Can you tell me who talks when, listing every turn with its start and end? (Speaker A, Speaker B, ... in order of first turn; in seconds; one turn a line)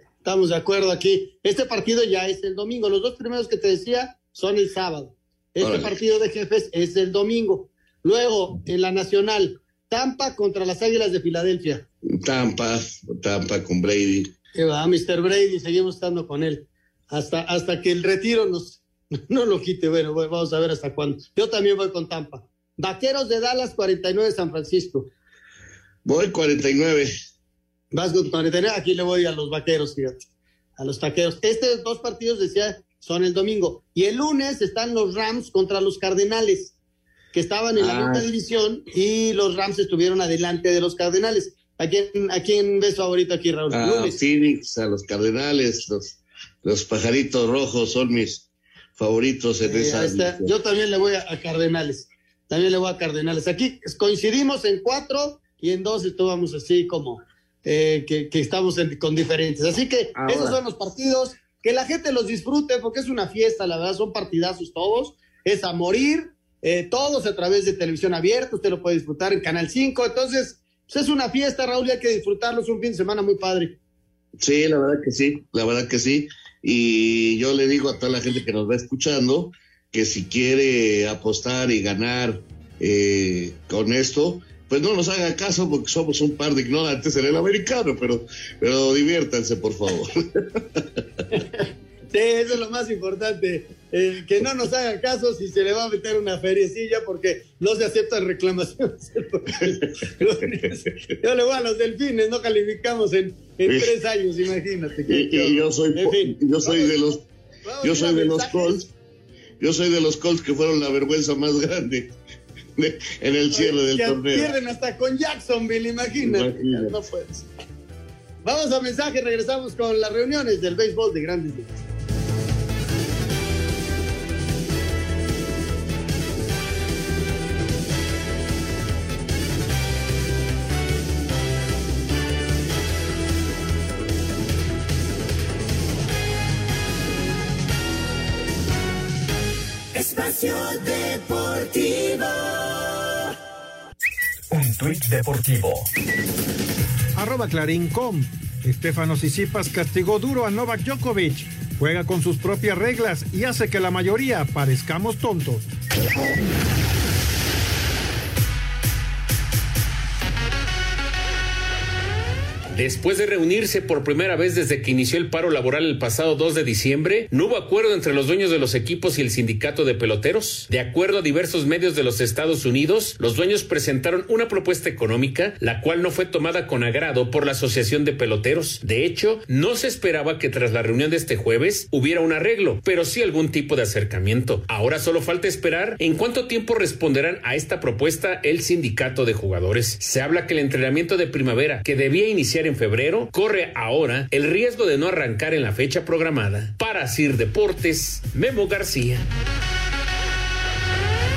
Speaker A: 0.2-11.8
Speaker B: 5.6-6.0
Speaker B: 12.1-14.3
Speaker A: 14.6-25.1
Speaker B: 26.1-27.1
Speaker A: 27.9-30.3
Speaker A: 30.8-36.7
Speaker A: 37.3-44.2
Speaker B: 37.8-38.3
Speaker B: 43.7-48.5
Speaker B: 49.0-50.5
Speaker A: 49.6-73.7
Speaker B: 60.2-60.6
Speaker B: 74.4-90.8
Speaker A: 92.1-107.0
Speaker B: 103.7-103.9
Speaker B: 105.1-107.2
Speaker A: 107.7-108.8
Speaker B: 107.8-108.9
Speaker B: 109.6-112.1
Speaker B: 112.8-114.5
Speaker A: 113.5-117.5
Speaker B: 116.2-116.9
Speaker A: 118.4-121.7
Speaker C: 140.0-142.2
Speaker C: 144.5-145.9
Speaker D: 147.2-155.6
Speaker E: 162.7-199.3